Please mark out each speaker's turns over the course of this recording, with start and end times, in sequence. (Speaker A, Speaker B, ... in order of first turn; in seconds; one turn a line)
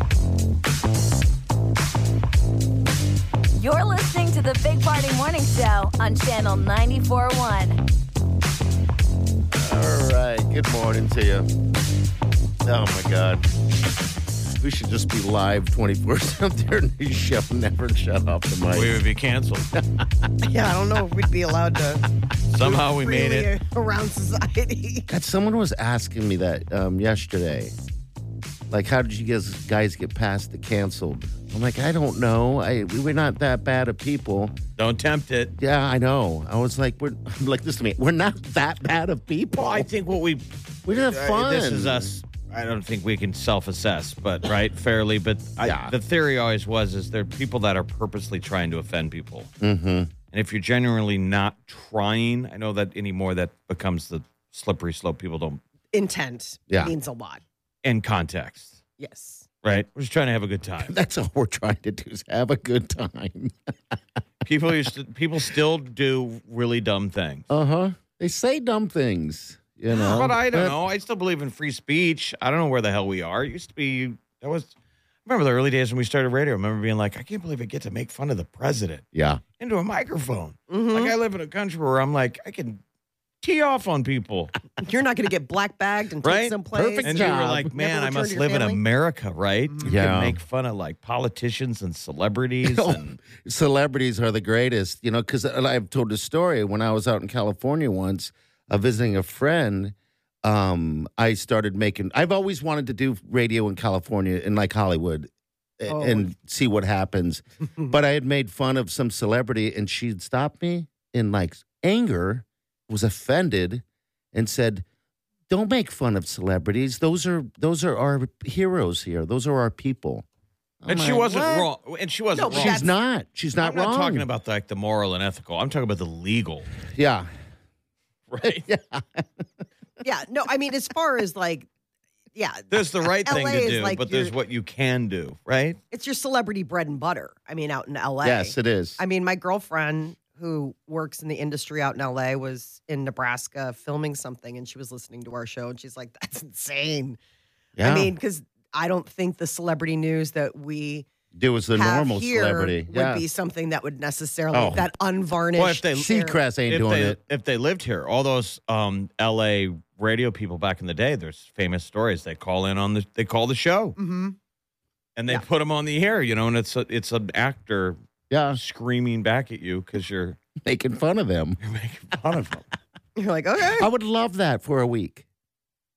Speaker A: 3.6-7.8
Speaker B: 9.5-11.5
Speaker B: 12.6-13.5
Speaker B: 14.6-19.0
Speaker C: 18.7-19.7
Speaker B: 19.8-20.3
Speaker D: 20.4-22.1
Speaker C: 22.5-23.5
Speaker D: 22.6-25.1
Speaker B: 25.1-27.7
Speaker B: 28.7-34.5
Speaker C: 34.8-35.5
Speaker B: 35.6-39.9
Speaker C: 39.6-49.5
Speaker B: 40.9-42.1
Speaker B: 45.6-45.9
Speaker B: 49.6-50.1
Speaker C: 50.3-55.6
Speaker D: 55.9-57.4
Speaker B: 56.7-56.9
Speaker C: 57.8-58.8
Speaker D: 59.0-59.5
Speaker C: 59.6-61.0
Speaker B: 60.8-64.0
Speaker C: 64.5-67.5
Speaker B: 67.5-70.8
Speaker C: 69.9-74.7
Speaker C: 75.3-79.0
Speaker B: 79.1-79.4
Speaker C: 79.6-82.8
Speaker D: 80.7-81.1
Speaker C: 83.4-84.5
Speaker D: 84.8-88.8
Speaker C: 86.2-93.2
Speaker B: 86.7-87.7
Speaker B: 89.8-90.4
Speaker B: 92.6-114.8
Speaker D: 105.9-106.3
Speaker B: 115.5-120.2
Speaker B: 120.8-121.7
Speaker C: 120.9-122.9
Speaker D: 122.3-122.9
Speaker B: 122.5-124.3
Speaker C: 123.6-126.7
Speaker B: 126.9-127.3
Speaker C: 128.3-128.7
Speaker B: 128.4-129.4
Speaker D: 130.0-131.7
Speaker D: 132.3-134.3
Speaker C: 132.7-135.8
Speaker D: 135.9-147.2
Speaker B: 138.2-139.0
Speaker B: 147.8-148.1
Speaker D: 147.8-151.1
Speaker B: 151.3-153.2
Speaker D: 151.8-156.4
Speaker B: 154.5-154.9
Speaker C: 155.6-164.0
Speaker B: 155.9-157.2
Speaker D: 164.0-164.4
Speaker C: 165.2-168.0
Speaker B: 168.3-168.6
Speaker C: 168.5-170.4
Speaker B: 170.6-171.6
Speaker C: 171.6-172.6
Speaker B: 172.3-172.6
Speaker D: 173.2-173.9
Speaker B: 173.8-175.2